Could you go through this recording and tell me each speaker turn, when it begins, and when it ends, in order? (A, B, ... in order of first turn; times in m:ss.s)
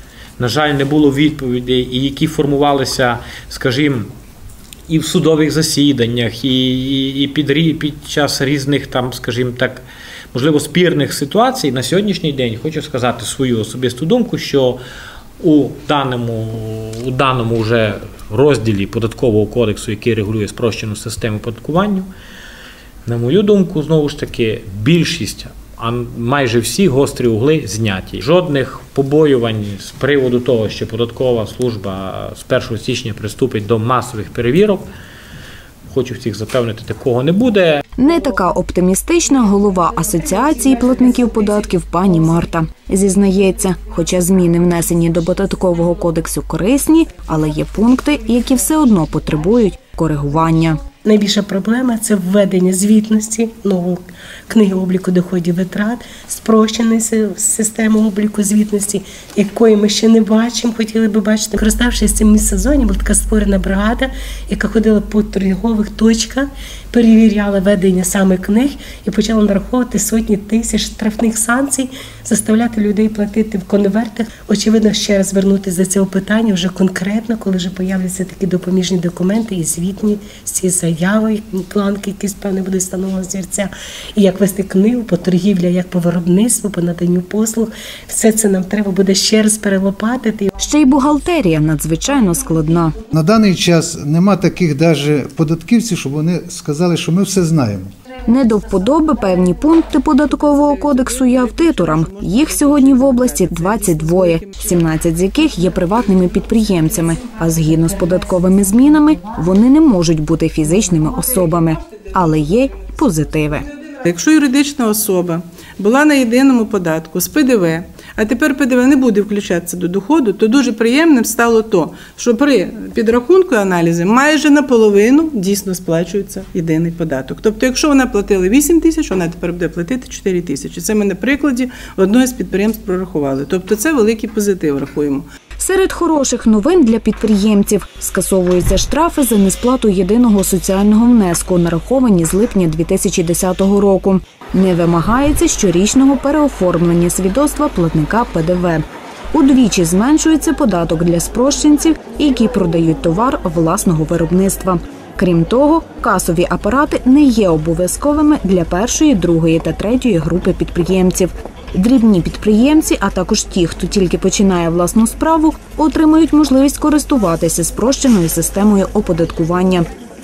0:00.4-0:04.1 A
0:04.9-0:09.8 A
0:10.3-0:14.8 A
0:15.4-0:22.1 A
0:23.1-0:34.9 A
0:35.9-0:37.8 A
0:38.0-0:50.8 B
0:51.0-1:30.5 C
1:30.6-1:32.9 B
1:33.1-1:37.9 D
1:38.3-1:53.7 B
1:40.5-1:44.6 E
1:53.8-2:15.3 E
2:15.6-2:49.8 B